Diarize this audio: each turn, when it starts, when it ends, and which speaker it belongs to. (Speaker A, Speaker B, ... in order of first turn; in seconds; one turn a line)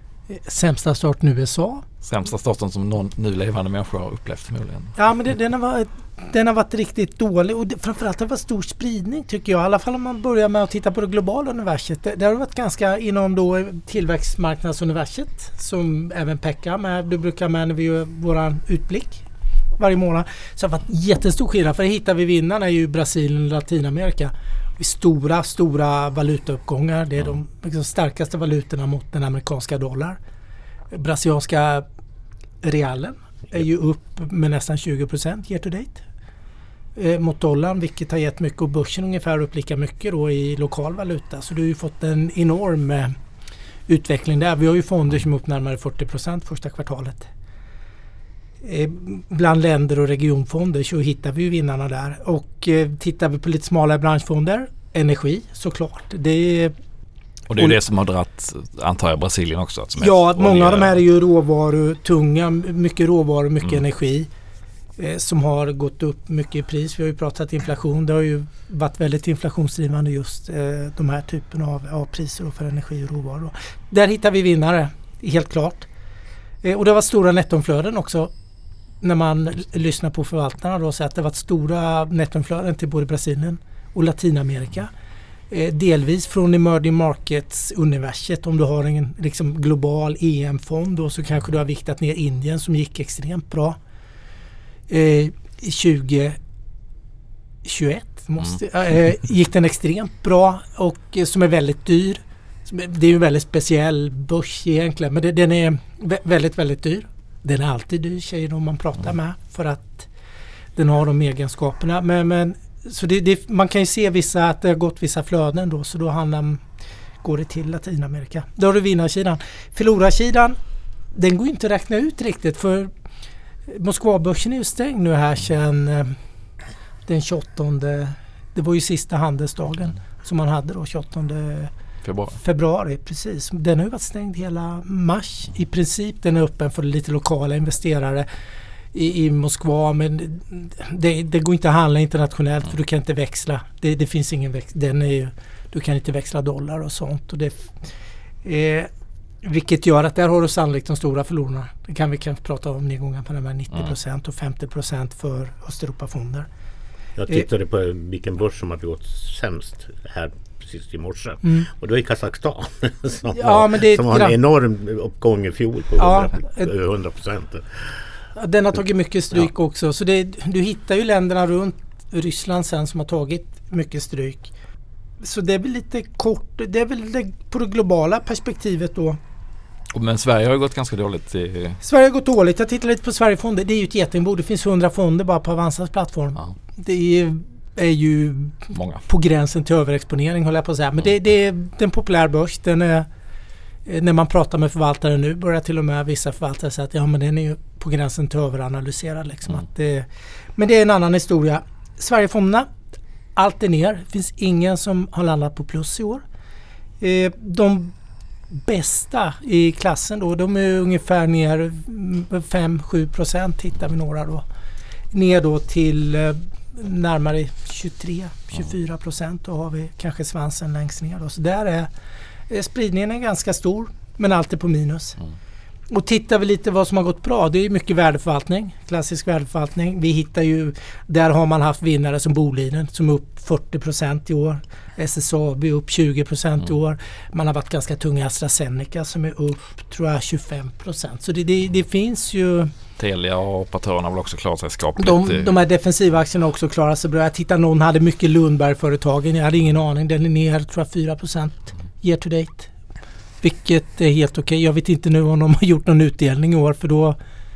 Speaker A: 0.3-1.8
Speaker B: 2.0-5.0
Speaker A: 5.0-19.2
Speaker A: 19.8-30.2
Speaker A: 30.9-31.9
Speaker A: 32.6-36.0
Speaker A: 37.0-43.1
Speaker A: 43.9-47.3
Speaker A: 48.6-56.7
Speaker B: 57.5-61.0
Speaker A: 60.0-64.3
Speaker A: 65.0-75.9
Speaker A: 76.6-78.3
Speaker A: 79.0-84.9
Speaker A: 85.5-93.8
Speaker A: 94.9-96.4
Speaker A: 97.6-110.1
Speaker A: 110.8-116.6
Speaker A: 117.2-120.6
Speaker A: 121.1-122.9
Speaker A: 123.7-126.2
Speaker A: 127.1-131.7
Speaker B: 132.0-132.4
Speaker A: 132.4-138.3
Speaker A: 138.9-147.7
Speaker A: 148.4-148.9
Speaker A: 149.4-156.5
Speaker C: 157.2-167.7
Speaker A: 163.3-164.4
Speaker A: 166.0-166.7
Speaker A: 168.4-174.5
Speaker A: 175.2-179.2
Speaker B: 179.9-181.8
Speaker A: 181.8-193.1
Speaker B: 188.7-189.0
Speaker A: 193.9-202.7
Speaker A: 203.4-206.2
Speaker A: 207.0-207.9
Speaker A: 208.5-214.4
Speaker A: 215.1-221.9
Speaker A: 222.5-225.2
Speaker A: 225.9-242.7
Speaker B: 243.0-245.5
Speaker A: 245.0-252.7
Speaker A: 253.4-257.2